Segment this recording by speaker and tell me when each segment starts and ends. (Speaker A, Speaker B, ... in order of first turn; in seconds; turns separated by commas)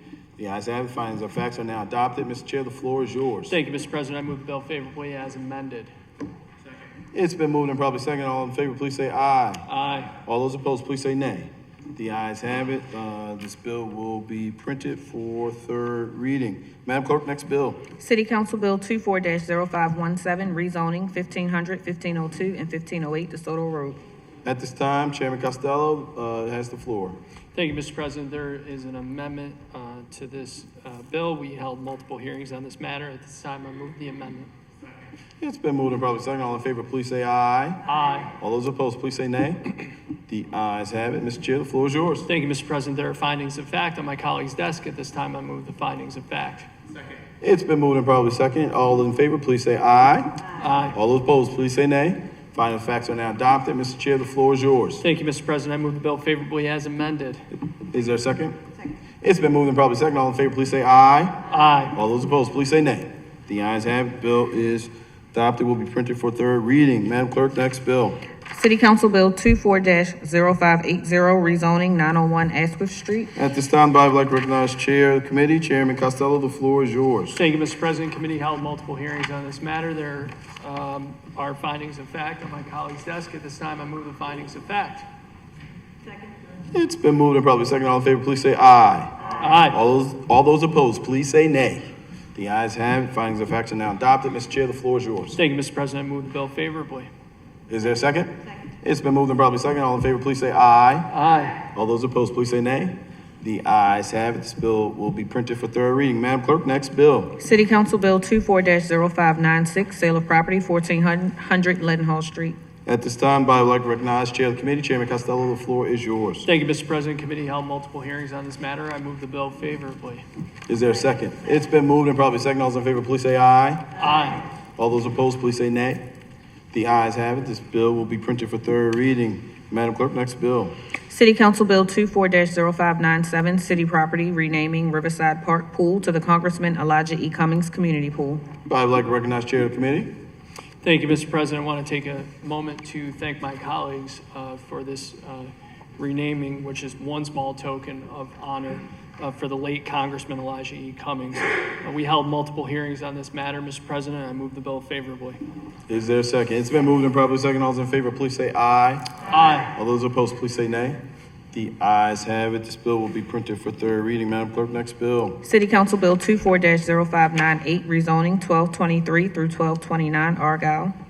Speaker A: 0.4-3.5, Speaker B: 3.5-5.9, Speaker A: 7.1-9.7, Speaker B: 9.7-10.1, Speaker A: 10.2-17.8, Speaker C: 18.0-24.0, Speaker A: 24.4-27.2, Speaker B: 27.5-34.5, Speaker A: 35.4-37.8, Speaker B: 37.9-38.3, Speaker A: 38.4-39.8, Speaker A: 40.3-42.3, Speaker B: 42.3-46.7, Speaker A: 47.4-50.3, Speaker B: 50.6-51.0, Speaker A: 50.9-55.0, Speaker B: 55.0-57.4, Speaker A: 57.5-58.6, Speaker A: 59.2-61.4, Speaker B: 61.5-61.9, Speaker A: 61.9-68.2, Speaker C: 68.5-73.3, Speaker A: 73.3-77.4, Speaker B: 77.3-85.1, Speaker A: 86.7-95.4, Speaker B: 89.4-89.8, Speaker B: 95.3-97.1, Speaker A: 97.7-101.1, Speaker B: 101.1-101.6, Speaker A: 101.7-107.3, Speaker C: 107.4-112.6, Speaker A: 112.8-116.5, Speaker B: 116.5-120.2, Speaker A: 120.7-123.9, Speaker B: 124.0-124.4, Speaker A: 124.8-126.0, Speaker A: 126.7-130.7, Speaker C: 131.1-138.4, Speaker A: 138.7-140.1, Speaker B: 140.8-155.4, Speaker A: 155.9-159.1, Speaker B: 159.3-159.7, Speaker A: 159.7-161.0, Speaker A: 161.5-165.4, Speaker C: 165.4-170.9